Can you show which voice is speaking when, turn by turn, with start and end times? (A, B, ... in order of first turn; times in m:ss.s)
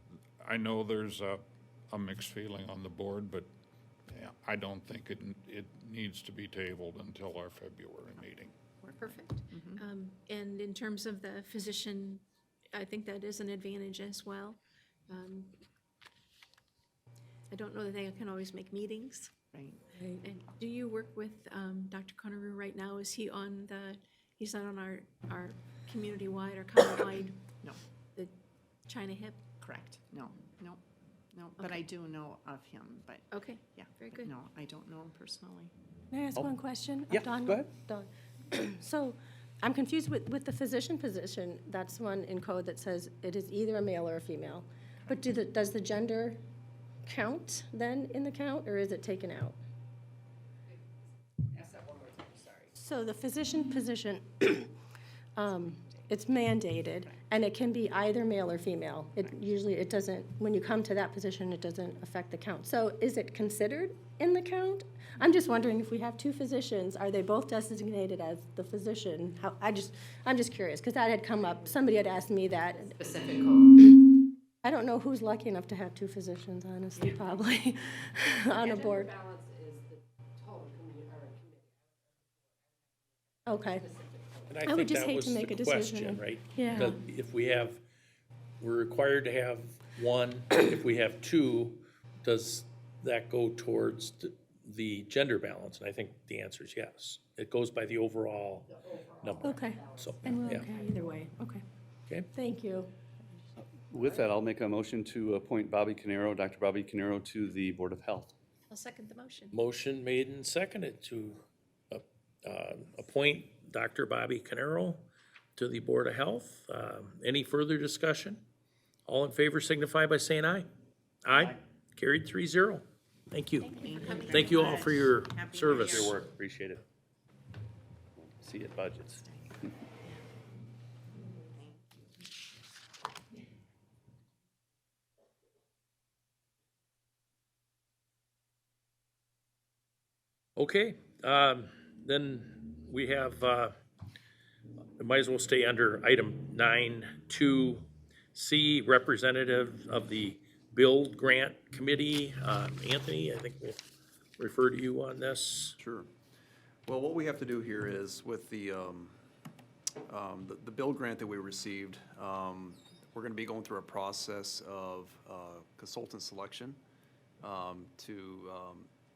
0:00.4-0:03.5 A
0:04.1-0:08.5 A
0:08.8-0:09.8 B
0:09.0-0:15.5 C
0:17.5-0:19.3 C
0:19.5-0:19.8 B
0:20.0-0:20.2 D
0:20.2-0:27.4 C
0:28.9-0:29.4 C
0:29.6-0:30.8 B
0:31.3-0:35.7 B
0:33.3-0:34.3 C
0:36.1-0:46.4 D
0:47.0-0:49.6 D
0:51.6-0:52.6 E
0:52.7-0:54.7 D
0:55.4-1:13.4 D
1:13.1-1:13.4 E
1:14.6-1:19.2 D
1:18.7-1:19.8 E
1:20.5-1:21.8 E
1:23.4-1:23.9 D
1:24.2-1:24.4 E
1:24.5-1:27.8 F
1:24.6-1:26.2 D
1:26.5-1:27.0 C
1:28.6-1:40.7 F
1:39.4-1:41.6 D
1:42.3-1:42.9 D
1:43.8-1:48.3 G
1:48.7-1:49.6 C
1:49.5-1:51.4 F
1:51.9-1:58.4 F
1:59.1-2:00.6 F
2:01.2-2:06.2 F
2:03.7-2:06.2 B
2:05.7-2:06.8 G
2:08.2-2:09.2 G
2:09.2-2:10.2 B
2:11.4-2:12.1 B
2:20.6-2:23.7 F
2:25.0-2:33.8 F
2:34.4-2:35.8 F
2:35.8-2:36.1 H
2:36.8-2:39.2 H
2:40.1-2:46.8 H
2:47.4-2:48.9 H